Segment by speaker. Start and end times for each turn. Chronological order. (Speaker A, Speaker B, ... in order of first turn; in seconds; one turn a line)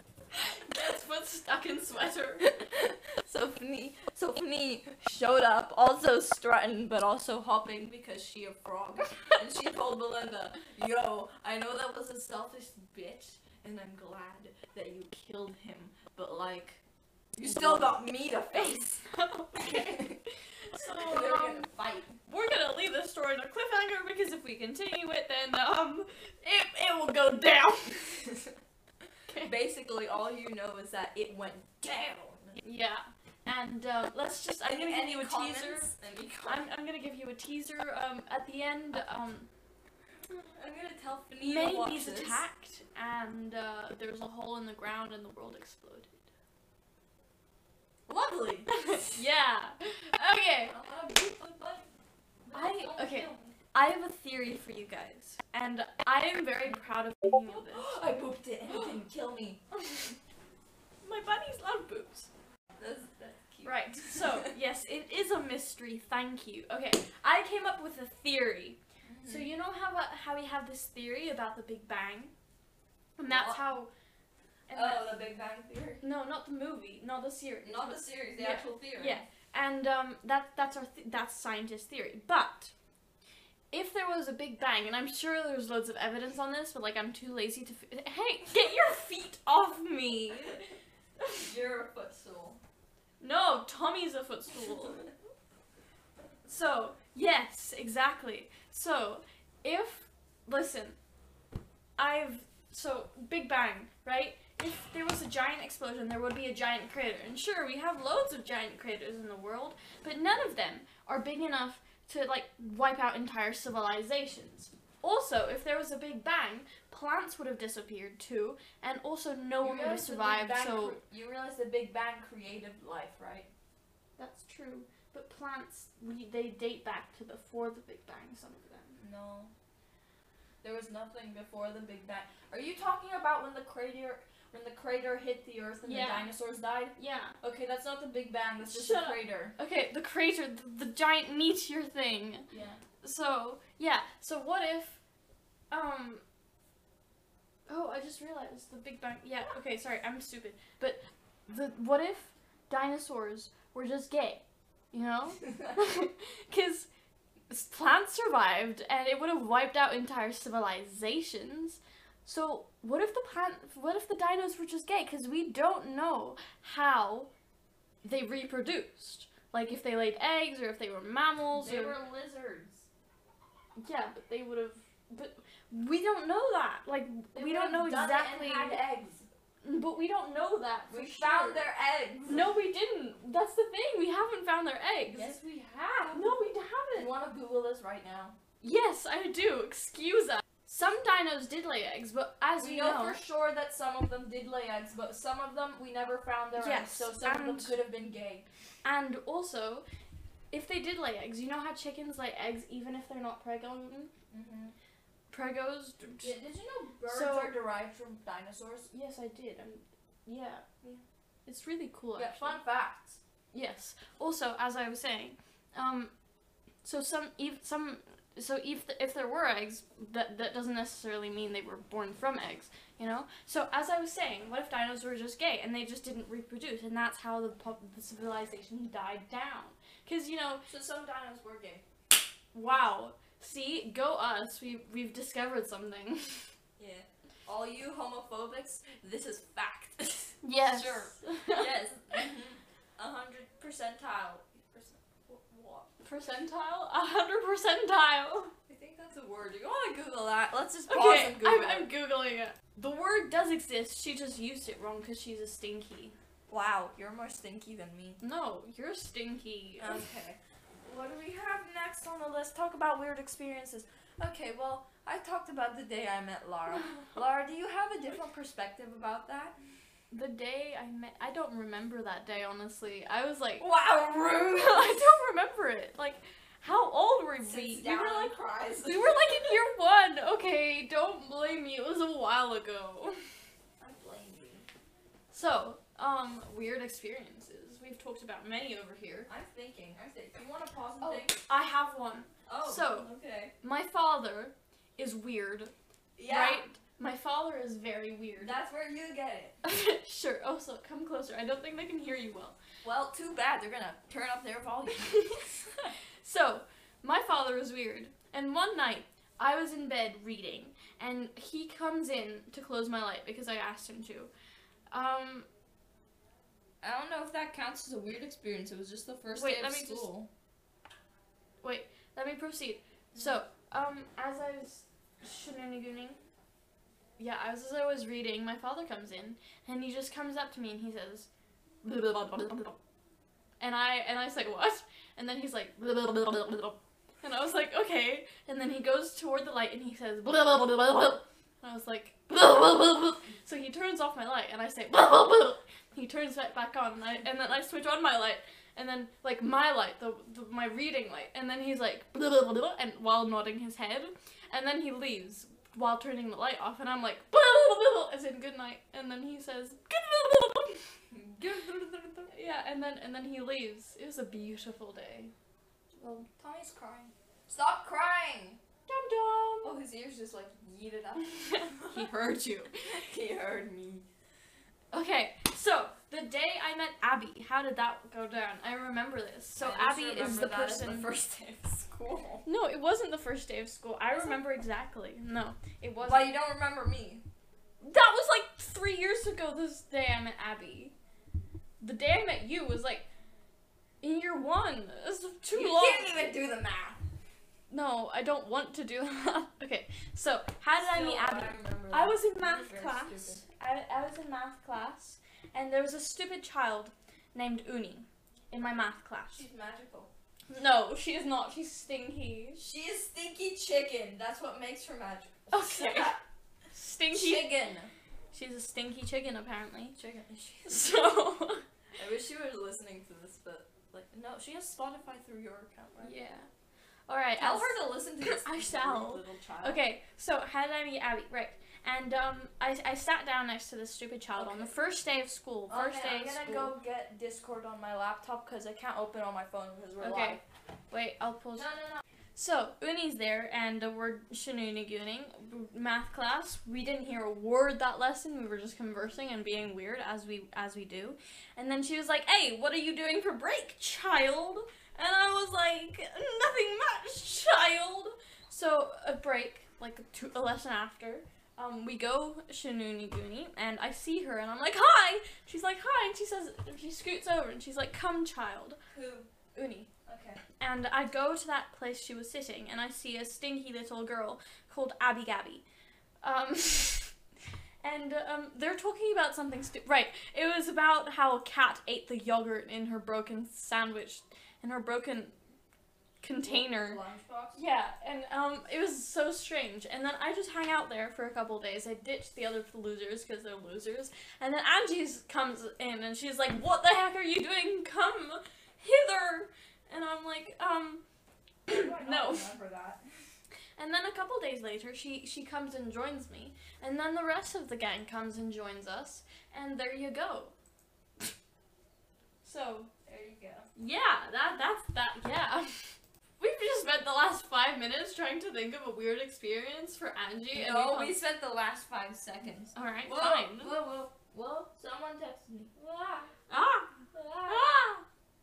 Speaker A: 0.4-2.6
Speaker B: 2.4-16.8
Speaker B: 17.4-19.0
Speaker A: 17.5-17.8
Speaker A: 18.5-21.7
Speaker B: 19.6-20.2
Speaker B: 20.8-22.2
Speaker A: 22.3-28.3
Speaker B: 28.2-28.5
Speaker B: 29.4-32.6
Speaker A: 32.6-35.9
Speaker B: 34.6-36.7
Speaker A: 36.5-39.5
Speaker B: 40.5-42.4
Speaker A: 41.4-46.2
Speaker B: 48.1-49.2
Speaker A: 48.7-50.8
Speaker B: 50.7-51.9
Speaker B: 52.5-53.6
Speaker A: 52.5-57.9
Speaker B: 57.5-59.6
Speaker A: 58.7-59.0
Speaker A: 59.7-60.2
Speaker A: 61.0-62.3
Speaker B: 62.8-64.5
Speaker A: 63.6-72.3
Speaker B: 69.1-69.5
Speaker A: 73.2-73.9
Speaker B: 73.3-73.6
Speaker A: 74.7-75.1
Speaker B: 74.7-76.0
Speaker A: 76.0-82.7
Speaker B: 77.6-79.2
Speaker A: 83.7-90.7
Speaker B: 91.3-92.6
Speaker A: 93.2-95.1
Speaker A: 96.5-101.0
Speaker A: 102.0-121.0
Speaker B: 119.6-123.5
Speaker A: 124.2-129.0
Speaker B: 129.0-129.5
Speaker B: 130.6-139.5
Speaker A: 135.8-136.3
Speaker A: 137.0-137.4
Speaker A: 138.6-142.5
Speaker B: 142.5-142.8
Speaker A: 143.0-145.0
Speaker A: 145.7-146.2
Speaker A: 147.7-156.9
Speaker A: 157.5-167.3
Speaker A: 168.0-172.0
Speaker B: 171.5-172.9
Speaker A: 173.8-178.8
Speaker B: 177.3-179.3
Speaker A: 179.6-181.6
Speaker B: 180.9-182.5
Speaker A: 182.3-185.4
Speaker B: 185.1-186.4
Speaker A: 186.1-187.1
Speaker B: 186.9-188.4
Speaker A: 188.6-193.2
Speaker B: 192.6-198.5
Speaker A: 196.6-197.8
Speaker A: 198.8-199.9
Speaker A: 200.5-204.1
Speaker B: 204.3-204.7
Speaker A: 205.3-206.3
Speaker B: 206.2-208.9
Speaker A: 207.1-207.5
Speaker A: 208.9-210.7
Speaker A: 211.5-212.6
Speaker B: 212.2-213.2
Speaker A: 213.5-216.1
Speaker A: 216.8-230.7
Speaker B: 230.7-231.8
Speaker A: 232.5-236.5
Speaker B: 236.8-245.9
Speaker A: 240.4-241.8
Speaker A: 246.0-248.5
Speaker B: 248.7-251.9
Speaker A: 250.9-256.2
Speaker B: 256.5-258.2
Speaker A: 258.2-260.1
Speaker B: 259.8-269.6
Speaker A: 266.8-267.1
Speaker A: 270.1-273.7
Speaker B: 273.6-275.0
Speaker A: 274.5-283.2
Speaker B: 277.4-279.6
Speaker B: 283.8-284.7
Speaker A: 285.3-289.3
Speaker B: 289.3-291.4
Speaker A: 291.0-293.1
Speaker B: 292.5-293.5
Speaker A: 293.6-295.7
Speaker B: 296.2-296.6
Speaker A: 296.3-298.6
Speaker B: 298.4-299.6
Speaker A: 299.6-302.6
Speaker B: 302.8-305.5
Speaker A: 305.0-314.3
Speaker A: 314.9-315.5
Speaker B: 316.8-320.3
Speaker A: 319.3-320.1
Speaker A: 321.6-326.2
Speaker A: 327.2-331.3
Speaker A: 331.8-332.8
Speaker A: 333.6-360.8
Speaker B: 361.1-362.3
Speaker A: 362.3-365.3
Speaker A: 366.0-366.3
Speaker B: 366.4-368.6
Speaker A: 368.9-369.8
Speaker B: 369.6-372.1
Speaker A: 371.2-372.8
Speaker B: 372.8-374.1
Speaker A: 374.9-381.1
Speaker B: 379.6-382.5
Speaker A: 382.4-386.3
Speaker B: 384.2-384.4
Speaker B: 386.0-387.2
Speaker A: 387.8-390.9
Speaker A: 391.8-393.1
Speaker A: 394.0-396.2
Speaker B: 395.5-397.0
Speaker A: 397.7-409.4
Speaker B: 400.8-403.4
Speaker B: 409.3-410.1
Speaker A: 410.5-412.6
Speaker B: 412.6-416.2
Speaker A: 415.5-416.2
Speaker A: 416.7-417.5
Speaker B: 417.1-417.9
Speaker A: 418.3-420.0
Speaker B: 420.0-421.0
Speaker A: 420.7-421.6
Speaker B: 422.0-426.1
Speaker A: 426.0-426.5
Speaker A: 427.1-436.7
Speaker B: 427.4-429.8
Speaker B: 434.4-434.8
Speaker B: 435.7-440.4
Speaker A: 440.0-440.4
Speaker A: 440.9-441.7
Speaker B: 441.6-442.0
Speaker A: 442.4-468.8
Speaker B: 468.9-469.3
Speaker A: 469.5-469.9
Speaker B: 470.1-470.4
Speaker A: 470.6-475.6
Speaker A: 476.2-477.1
Speaker A: 477.8-485.4
Speaker A: 486.2-487.0
Speaker B: 486.4-487.6
Speaker A: 487.5-501.0
Speaker A: 501.7-502.5
Speaker B: 501.7-503.0
Speaker A: 503.8-510.5
Speaker A: 512.4-512.9
Speaker B: 513.0-513.7
Speaker A: 513.8-521.2
Speaker B: 520.5-526.3
Speaker A: 522.7-523.8
Speaker A: 526.5-528.0
Speaker B: 527.1-527.8